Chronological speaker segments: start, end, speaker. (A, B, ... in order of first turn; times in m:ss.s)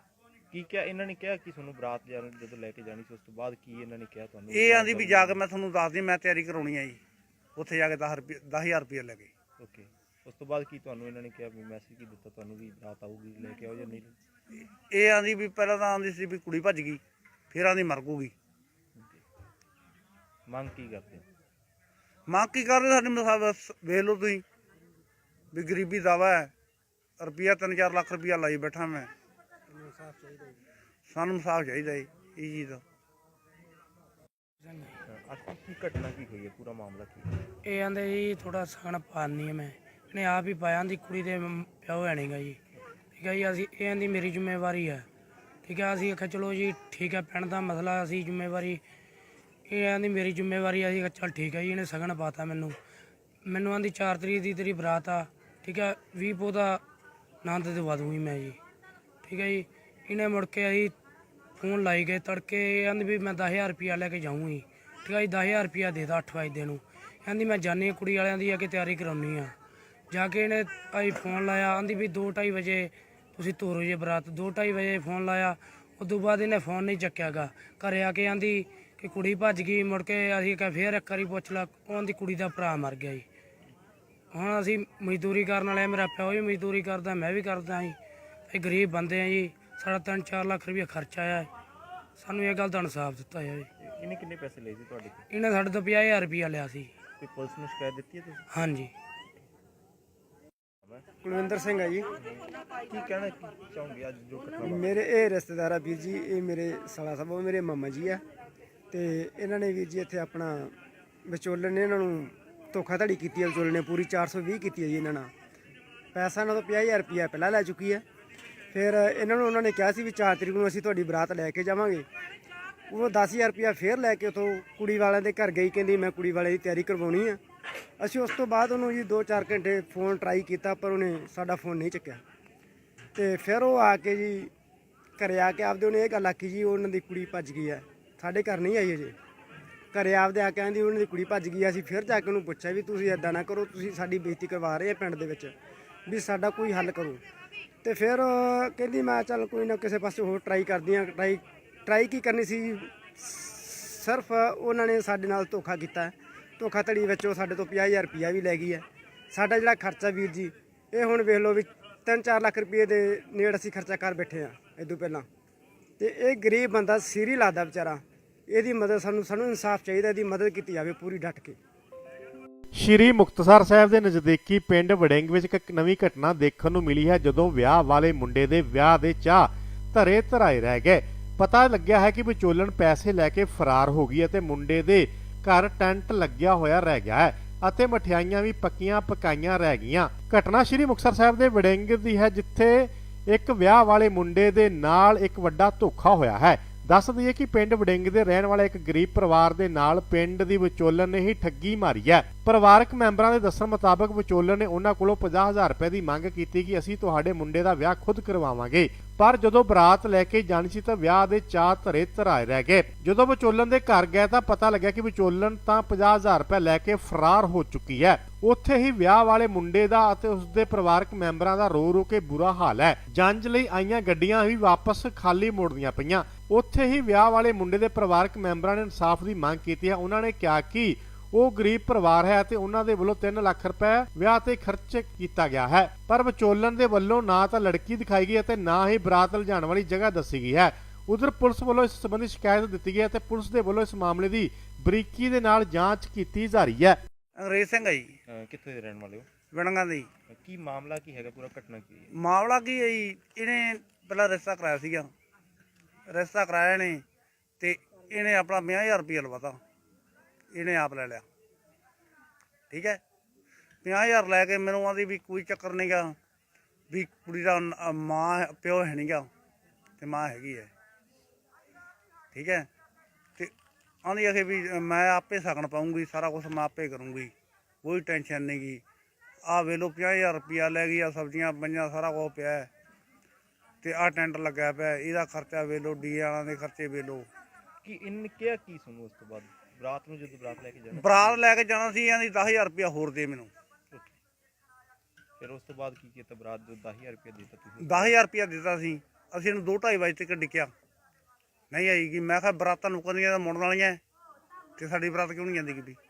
0:00.5-0:05.4 A
0:04.5-0:07.0 B
0:07.6-0:09.3 B
0:09.6-0:14.2 A
0:14.9-0:18.3 B
0:19.0-0:19.2 A
0:20.5-0:21.3 A
0:22.3-0:24.4 B
0:25.5-0:26.5 B
0:27.2-0:29.1 B
0:29.8-0:30.5 C
0:31.1-0:32.8 B
0:34.6-0:35.0 D
0:35.1-0:37.3 A
0:37.6-0:42.6 D
0:43.2-0:45.1 D
0:45.6-0:48.8 D
0:49.7-0:52.8 D
0:53.5-0:56.8 D
0:57.4-0:58.6 D
0:59.2-1:00.9 D
1:01.6-1:09.5 D
1:10.1-1:23.2 D
1:24.3-1:28.0 D
1:28.5-1:31.5 D
1:32.2-1:33.7 D
1:33.8-1:35.2 A
1:35.3-1:37.0 D
1:37.2-1:38.5 A
1:38.5-1:38.9 D
1:40.8-1:41.1 A
1:41.2-1:42.1 C
1:42.2-1:45.0 A
1:44.6-1:48.2 C
1:48.9-1:50.8 C
1:51.3-1:55.3 C
1:56.1-1:58.0 C
1:58.7-2:02.1 C
2:02.9-2:07.4 C
2:08.0-2:12.2 C
2:13.2-2:14.5 C
2:15.2-2:19.2 C
2:19.9-2:25.5 C
2:26.1-2:27.2 C
2:27.8-2:45.3 C
2:46.0-2:51.6 C
2:52.8-4:07.0 E
4:07.4-4:08.1 B
4:08.3-4:09.3 A
4:09.5-4:10.1 B
4:10.3-4:12.1 A
4:12.2-4:15.1 B
4:16.1-4:17.0 B
4:17.6-4:19.6 B
4:20.5-4:21.2 B
4:22.7-4:23.0 B
4:23.8-4:26.2 B
4:26.9-4:29.3 B
4:30.0-4:30.7 B
4:32.3-4:32.7 B
4:34.0-4:37.3 B
4:37.8-4:38.8 B
4:39.5-4:42.7 B
4:43.8-4:47.3 B
4:47.8-4:51.4 A
4:51.0-4:53.5 B
4:53.9-4:54.2 A
4:55.4-4:58.2 A
4:57.8-5:00.7 B
5:01.7-5:04.0 B
5:04.8-5:06.0 B